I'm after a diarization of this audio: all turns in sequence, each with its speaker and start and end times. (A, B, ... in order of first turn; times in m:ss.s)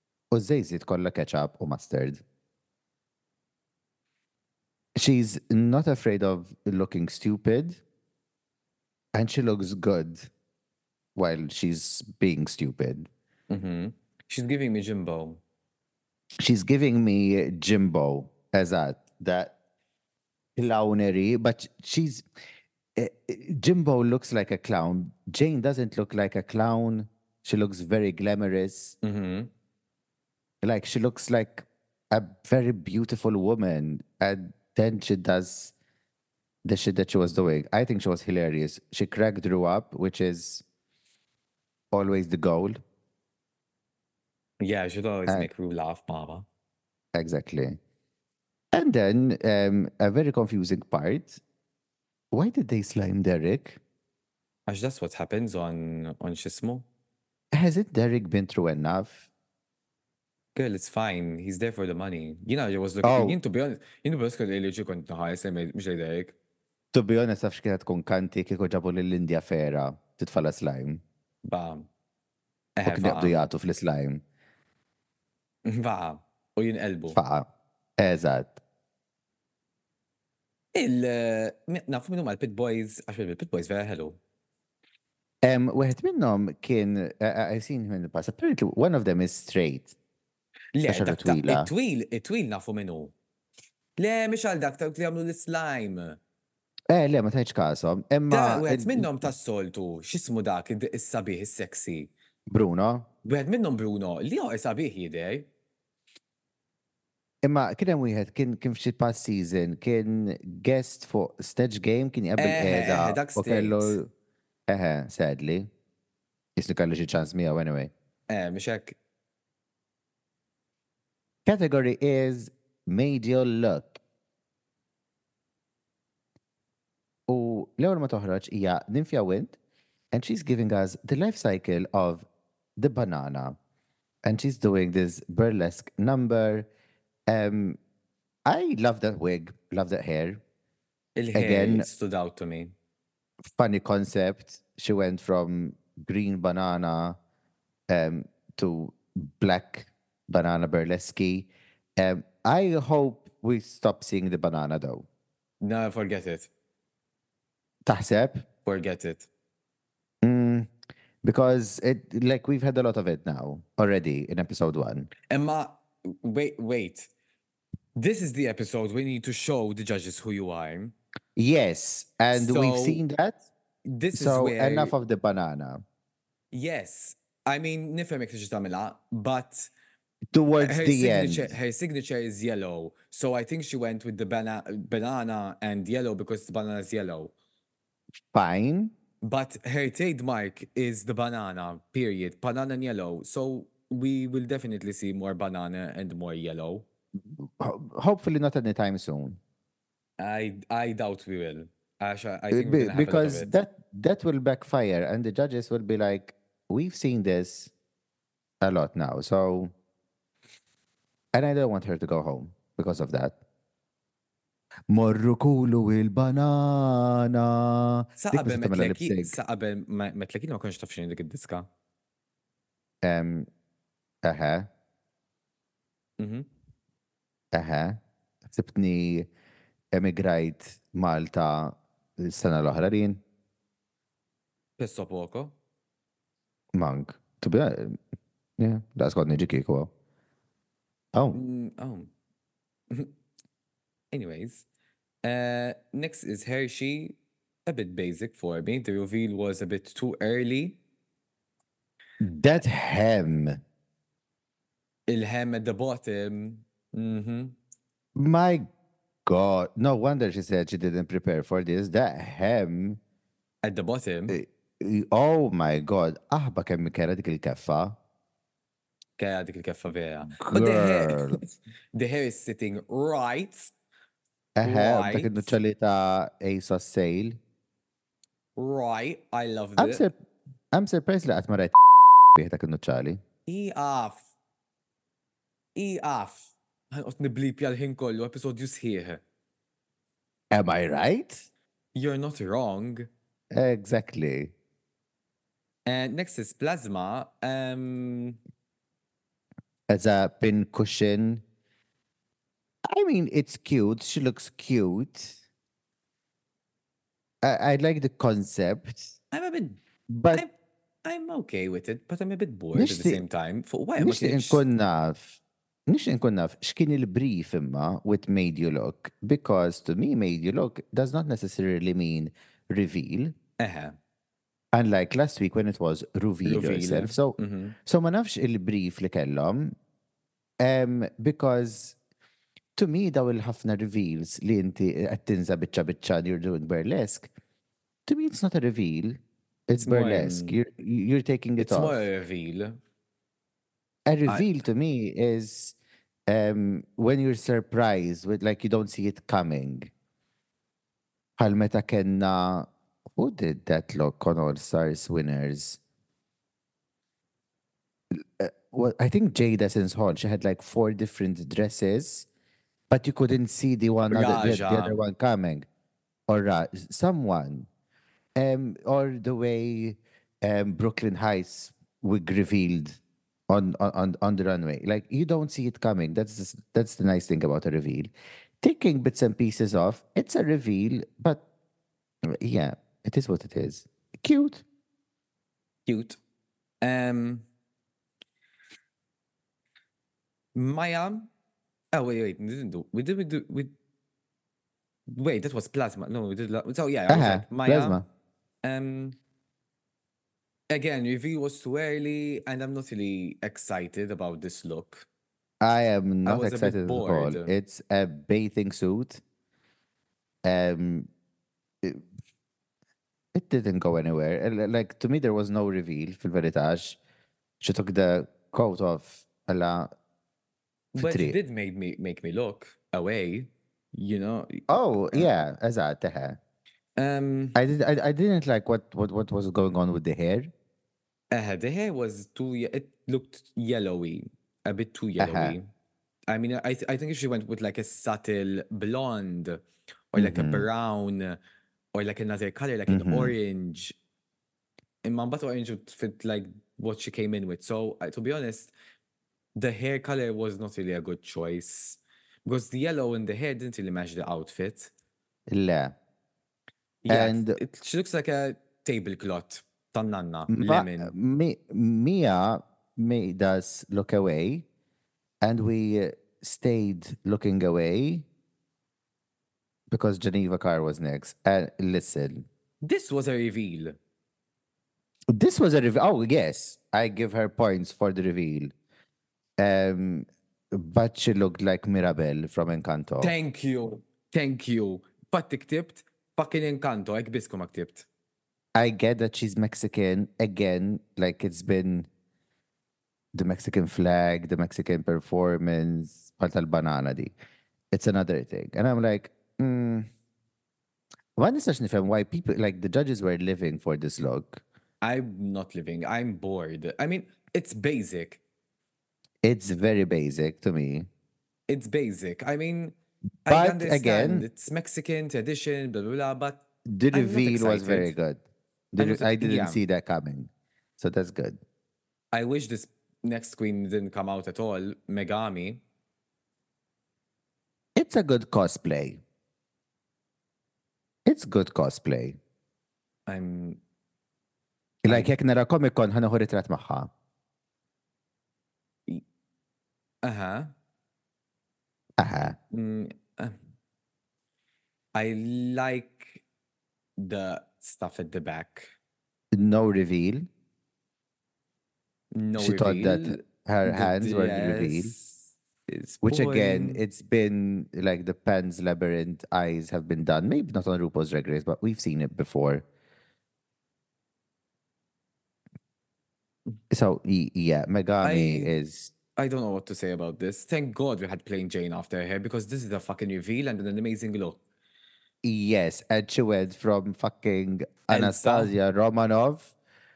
0:00.3-0:02.2 A
0:05.0-0:07.8 A
0:09.1-0:10.3 A
0:11.2-0:13.1 A
0:13.5-0:15.4 B
0:16.4-0:19.5 A
0:20.6-0:22.2 A
0:23.0-0:29.0 A
0:29.0-0:29.5 B
0:30.6-0:35.7 A
0:36.6-0:40.6 A
0:41.9-0:42.8 A
0:44.6-0:46.4 B
0:47.1-0:47.8 A
0:48.7-0:51.4 A
0:52.3-0:53.8 A
0:54.7-0:56.8 B
0:57.5-0:59.2 A
1:00.5-1:06.3 B
1:03.0-1:03.4 A
1:06.9-1:11.0 A
1:11.4-1:11.9 B
1:12.8-1:13.5 B
1:12.8-1:14.2 A
1:15.6-1:17.2 B
1:17.1-1:18.6 A
1:20.7-1:24.2 B
1:25.4-1:29.9 A
1:30.7-1:33.1 B
1:30.8-1:31.7 A
1:34.0-1:36.2 B
1:36.9-1:39.3 A
1:38.3-1:42.1 B
1:42.5-1:43.0 A
1:43.2-1:45.5 B
1:47.4-1:54.1 A
1:52.4-1:54.0 B
1:54.7-1:55.7 A
1:56.6-1:57.9 A
1:58.3-1:59.0 B
2:01.4-2:04.0 A
2:07.3-2:09.6 A
2:10.1-2:12.2 A
2:12.8-2:13.6 A
2:14.2-2:16.7 A
2:17.3-2:17.8 A
2:18.4-2:20.4 A
2:21.2-2:22.7 B
2:21.3-2:21.9 A
2:23.5-2:27.2 A
2:27.9-2:35.0 A
2:35.6-2:36.5 B
2:37.8-2:38.4 A
2:38.6-2:39.3 B
2:40.2-2:40.7 A
2:41.2-2:45.1 A
2:45.3-2:47.1 B
2:48.0-2:50.9 B
2:51.4-2:53.4 A
2:52.3-2:53.0 B
2:53.9-2:54.9 B
2:54.1-2:55.8 A
2:56.5-2:59.7 B
3:00.3-3:01.5 A
3:00.6-3:07.3 B
3:08.3-3:08.9 A
3:09.2-3:16.8 B
3:17.3-3:19.4 A
3:20.2-3:23.5 B
3:22.5-3:27.7 A
3:28.6-3:29.7 A
3:31.3-3:33.4 A
3:34.9-3:39.3 A
3:38.2-3:41.7 B
3:43.0-3:43.5 A
3:44.2-3:44.7 A
3:46.2-3:46.5 B
3:47.5-3:49.3 A
3:49.9-3:53.2 A
3:54.8-3:55.5 B
3:56.7-3:58.0 A
3:58.6-3:59.9 A
4:01.1-4:01.4 A
4:01.3-4:02.1 B
4:04.1-4:04.6 B
4:05.2-4:10.8 B
4:12.2-4:13.6 A
4:15.1-4:17.6 B
4:18.1-4:18.7 A
4:19.2-4:23.0 A
4:23.6-4:24.4 B
4:24.3-4:28.0 A
4:29.2-4:33.7 B
4:30.4-4:31.4 A
4:34.6-4:37.4 A
4:34.6-4:35.6 B
4:38.6-4:40.0 B
4:39.8-4:40.1 A
4:40.7-4:41.8 A
4:42.3-4:43.2 A
4:43.4-4:44.3 B
4:45.7-4:49.2 B
4:50.5-4:51.4 A
4:51.9-4:53.1 B
4:53.5-4:54.5 A
4:55.8-4:58.4 B
4:59.9-5:01.4 A
5:02.9-5:05.4 A
5:07.4-5:09.1 A
5:09.3-5:09.8 B
5:10.1-5:10.4 A
5:11.0-5:14.6 B
5:12.7-5:13.2 A
5:14.0-5:23.3 A
5:23.6-5:24.0 B
5:24.7-5:29.8 A
5:26.4-5:27.8 B
5:30.6-5:32.0 A
5:32.8-5:37.3 A
5:38.1-5:42.0 A
5:39.8-5:40.6 B
5:41.6-5:42.8 B
5:44.0-5:45.8 A
5:46.3-5:49.9 A
5:51.4-5:55.8 A
5:58.1-6:02.3 A
6:02.9-6:05.7 A
6:04.1-6:05.0 B
6:06.3-6:07.7 A
6:08.4-6:21.4 A
6:22.3-6:24.6 A
6:25.8-6:26.2 B
6:26.8-6:27.4 B
6:30.5-6:31.3 B
6:31.9-6:33.7 B
6:35.1-6:38.0 B
6:37.1-6:38.0 A
6:38.6-6:39.2 B
6:40.7-6:45.0 B
6:45.6-6:49.2 A
6:46.2-6:47.5 B
6:50.4-6:51.1 A
6:53.3-6:57.0 A
6:57.6-6:59.9 A
7:00.9-7:05.3 B
7:01.0-7:01.4 A
7:04.7-7:06.4 A
7:07.0-7:07.6 B
7:07.5-7:10.5 A
7:11.3-7:15.7 B
7:15.2-7:15.6 A
7:16.3-7:21.4 B
7:20.2-7:20.7 A
7:21.9-7:24.0 B
7:22.9-7:23.3 A
7:25.0-7:28.7 B
7:29.6-7:34.9 B
7:35.5-7:35.9 A
7:37.0-7:41.1 B
7:37.1-7:37.6 A
7:40.5-7:44.6 A
7:45.4-7:48.2 A
7:49.9-7:52.4 A
7:52.8-7:54.0 B
7:55.3-7:58.7 A
7:59.6-8:03.3 A
8:03.2-8:08.1 B
8:08.8-8:12.1 A
8:13.3-8:17.3 A
8:17.9-8:20.1 A
8:21.4-8:24.6 A
8:25.0-8:28.4 B
8:29.4-8:31.1 A
8:31.7-8:36.6 B
8:33.5-8:34.5 A
8:36.9-8:38.4 A
8:37.1-8:38.1 B
8:38.9-8:41.6 A
8:39.0-8:39.8 B
8:42.3-8:45.8 B
8:48.0-8:49.2 A
8:51.2-8:52.4 A
8:53.3-8:53.8 B
8:55.0-8:57.1 A
8:55.0-8:55.3 B
9:00.2-9:00.7 B
9:02.2-9:02.6 A
9:02.7-9:03.6 B
9:05.1-9:06.4 B
9:07.2-9:08.9 B
9:09.5-9:10.4 A
9:12.3-9:17.0 B
9:12.6-9:15.1 A
9:16.2-9:22.8 A
9:26.9-9:29.1 A
9:28.2-9:28.7 B
9:29.4-9:34.6 B
9:35.4-9:39.7 A
9:38.1-9:38.7 B